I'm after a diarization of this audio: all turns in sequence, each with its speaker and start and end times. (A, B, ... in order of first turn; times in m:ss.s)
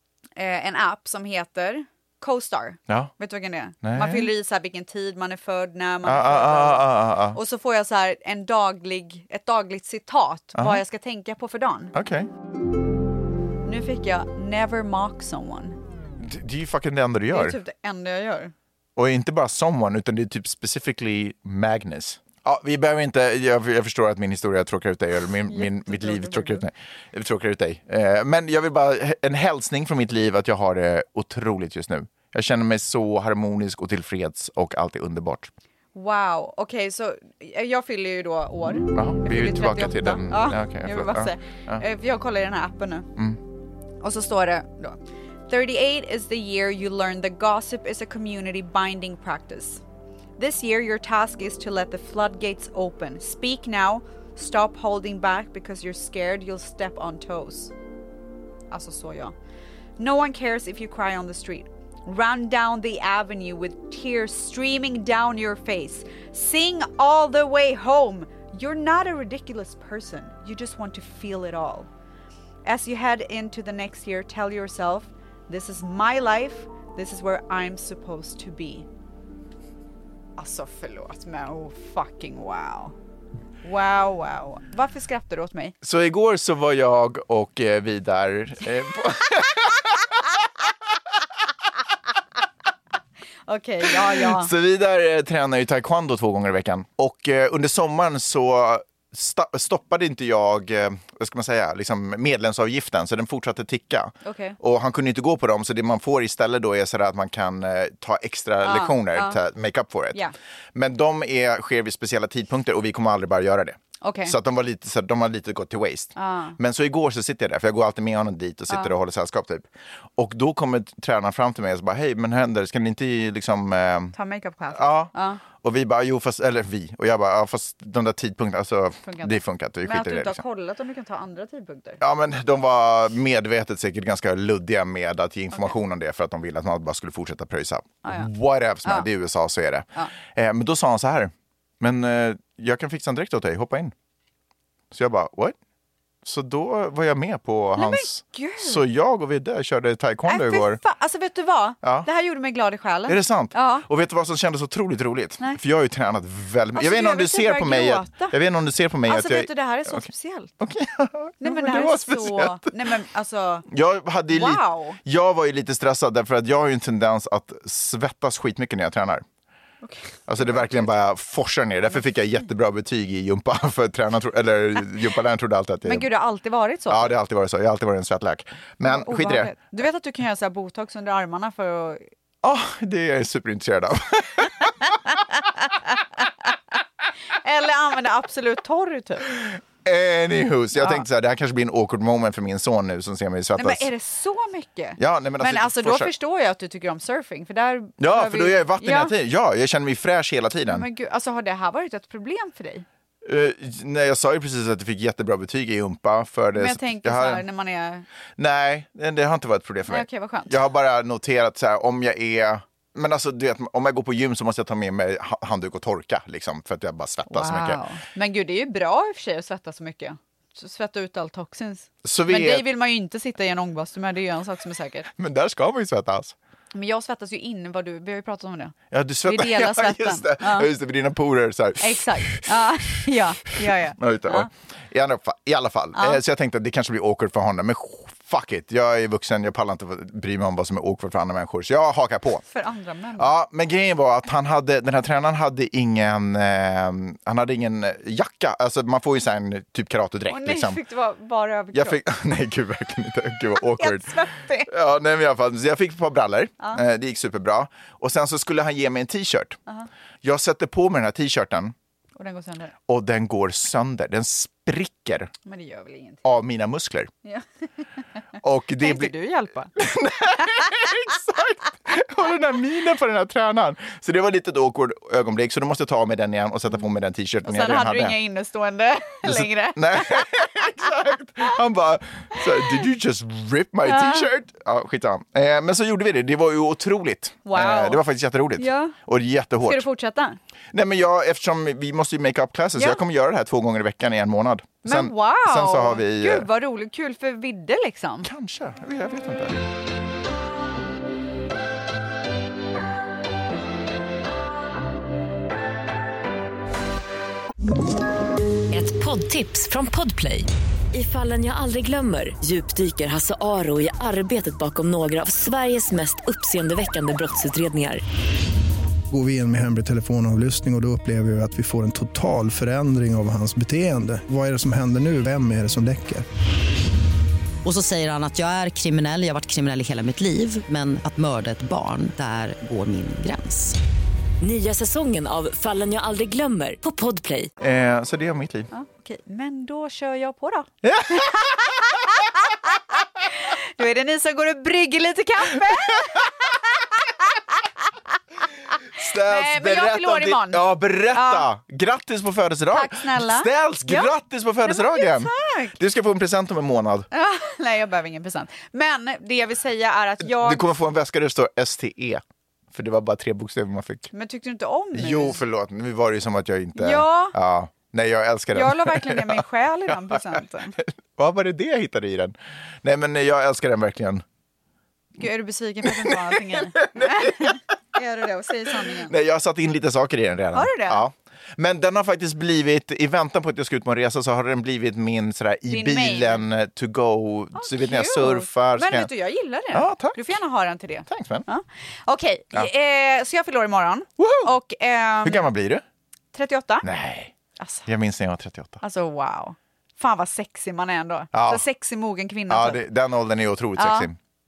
0:00.4-0:11.9 A
0:03.8-0:04.3 B
0:06.0-0:07.4 B
0:10.6-0:10.8 B
0:11.9-0:12.3 B
0:13.6-0:15.8 A
0:16.2-0:17.6 B
0:17.3-0:18.5 A
0:19.0-0:35.5 B
0:25.5-0:26.7 A
0:36.0-0:43.1 A
0:38.9-0:41.8 B
0:44.0-0:49.8 A
0:50.4-0:57.7 A
0:58.7-0:59.4 A
1:00.0-1:11.9 A
1:12.6-1:18.9 A
1:20.4-1:23.0 A
1:23.6-1:25.7 A
1:25.8-1:30.2 B
1:33.5-1:34.5 A
1:33.9-1:50.2 B
1:44.2-1:44.6 A
1:48.6-1:49.4 A
1:50.8-1:59.7 B
1:54.0-1:54.4 A
1:56.2-1:56.6 A
2:00.2-2:04.2 B
2:04.1-2:05.4 A
2:04.7-2:10.4 B
2:09.0-2:12.0 A
2:12.0-2:23.9 B
2:18.0-2:18.3 A
2:24.9-2:25.6 B
2:26.2-2:30.8 B
2:27.8-2:28.8 A
2:30.3-2:33.9 A
2:31.8-2:32.1 B
2:33.1-2:40.1 B
2:36.8-2:38.4 A
2:39.1-2:40.5 A
2:40.6-2:42.8 B
2:41.4-2:43.7 A
2:43.7-2:49.2 B
2:44.3-2:45.0 A
2:49.8-2:50.8 A
2:50.3-2:56.1 B
2:55.8-2:57.1 A
2:56.9-2:59.5 B
2:58.8-3:02.1 A
3:02.4-3:05.0 B
3:05.9-3:06.5 A
3:07.3-3:09.2 A
3:09.4-3:13.9 B
3:10.8-3:11.0 A
3:13.6-3:19.1 A
3:15.0-3:16.1 B
3:18.0-3:20.9 B
3:20.7-3:22.9 A
3:23.2-3:27.4 B
3:26.6-3:28.0 A
3:28.4-3:37.8 B
3:29.9-3:30.6 A
3:37.3-3:45.1 A
3:42.0-3:42.6 B
3:45.1-3:46.4 B
3:46.7-3:50.7 A
3:48.9-4:02.4 B
3:51.8-3:54.5 A
3:56.0-3:56.2 A
4:02.5-4:03.3 A
4:03.2-4:10.8 B
4:10.3-4:12.0 A
4:11.7-4:19.6 B
4:13.6-4:14.7 A
4:20.2-4:21.7 B
4:22.2-4:22.8 A
4:22.9-4:25.3 B
4:25.4-4:26.2 A
4:26.2-4:27.1 B
4:28.4-4:29.2 B
4:28.8-4:29.7 A
4:29.8-4:38.2 B
4:37.4-4:40.9 A
4:39.2-4:49.9 B
4:42.4-4:42.8 A
4:43.9-4:44.3 A
4:47.5-4:48.0 A
4:48.6-4:49.0 A
4:49.6-4:50.4 A
4:50.7-4:56.5 B
4:52.8-4:53.0 A
4:54.8-4:58.3 A
4:58.2-4:59.7 B
5:08.7-5:18.0 C
5:19.1-5:26.2 D
5:27.6-5:33.8 E
5:34.4-5:37.5 C
5:37.6-5:38.7 B
5:38.7-5:48.0 A
5:40.8-5:42.1 B
5:45.6-5:46.3 B
5:48.9-5:57.1 B
5:49.0-5:51.5 A
5:52.7-5:54.1 A
5:54.6-5:55.8 A
5:57.1-6:00.7 A
6:00.2-6:02.2 B
6:02.7-6:04.1 B
6:04.1-6:05.4 A
6:04.9-6:09.4 B
6:06.8-6:07.4 A
6:08.5-6:10.8 A
6:10.0-6:14.2 B
6:15.2-6:19.1 A
6:15.8-6:17.6 B
6:18.8-6:29.1 B
6:20.5-6:21.0 A
6:25.7-6:26.4 A
6:27.5-6:35.5 A
6:29.7-6:30.3 B
6:31.1-6:31.5 B
6:34.2-6:34.5 B
6:35.2-6:35.8 B
6:36.3-6:36.9 A
6:36.8-6:37.3 B
6:37.6-6:37.9 A
6:37.9-6:38.8 B
6:38.8-6:42.8 A
6:41.3-6:41.7 B
6:42.5-6:44.2 B
6:43.8-6:44.1 A